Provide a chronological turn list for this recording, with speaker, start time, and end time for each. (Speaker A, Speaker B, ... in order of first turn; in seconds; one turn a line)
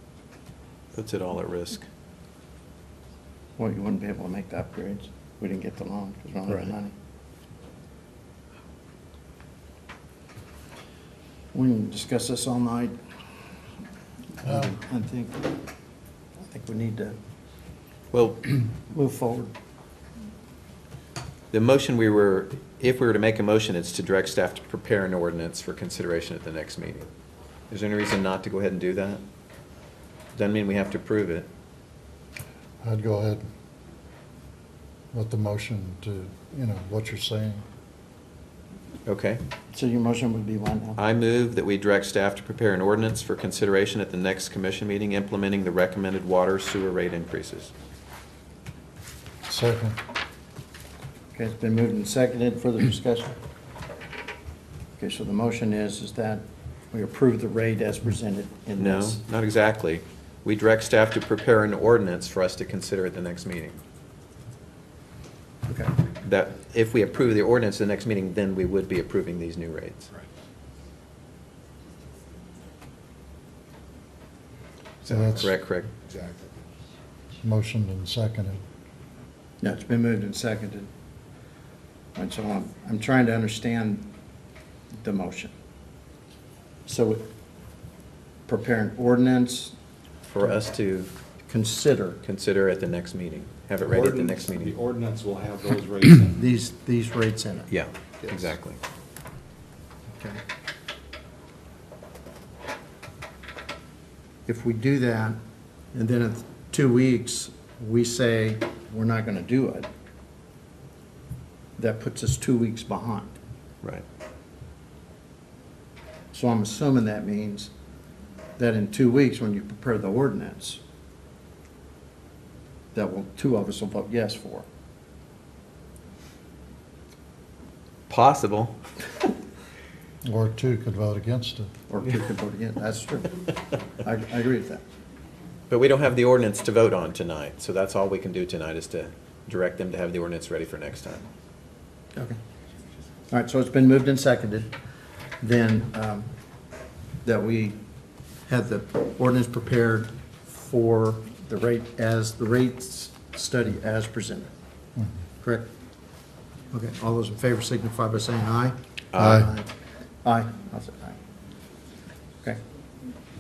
Speaker A: 0.9-1.9
Speaker B: 3.6-6.9
Speaker B: 11.5-13.0
Speaker B: 14.4-15.6
Speaker C: 14.5-14.8
Speaker B: 16.4-17.2
Speaker A: 18.1-18.4
Speaker B: 18.7-19.5
Speaker A: 21.5-27.1
Speaker A: 27.7-29.2
Speaker A: 30.4-31.5
Speaker C: 32.8-33.5
Speaker C: 35.1-37.6
Speaker A: 39.1-39.4
Speaker B: 39.7-41.0
Speaker A: 41.0-47.7
Speaker C: 49.5-50.0
Speaker B: 51.4-53.4
Speaker B: 55.0-59.2
Speaker A: 58.8-63.8
Speaker B: 65.7-65.9
Speaker A: 66.2-70.1
Speaker A: 75.0-75.9
Speaker C: 75.0-75.5
Speaker D: 76.0-76.5
Speaker C: 77.4-78.6
Speaker B: 79.6-80.9
Speaker B: 82.2-84.1
Speaker B: 85.0-85.5
Speaker B: 86.9-87.2
Speaker B: 88.5-89.8
Speaker A: 90.3-91.1
Speaker B: 91.5-92.2
Speaker A: 92.2-94.8
Speaker D: 93.8-96.5
Speaker B: 96.4-97.7
Speaker A: 97.7-98.8
Speaker D: 98.2-98.5
Speaker B: 100.1-100.4
Speaker B: 104.5-105.4
Speaker B: 105.9-109.9
Speaker B: 111.8-113.3
Speaker B: 116.3-117.7
Speaker B: 118.6-120.8
Speaker B: 122.9-124.7
Speaker A: 128.1-128.8
Speaker C: 130.2-131.7
Speaker B: 131.9-134.8
Speaker A: 135.7-141.2
Speaker B: 143.3-144.7
Speaker B: 145.4-146.3
Speaker B: 147.2-147.8
Speaker B: 148.5-154.5
Speaker B: 155.4-155.7
Speaker B: 156.7-159.7
Speaker A: 159.2-159.4
Speaker C: 159.2-159.5
Speaker B: 160.2-161.2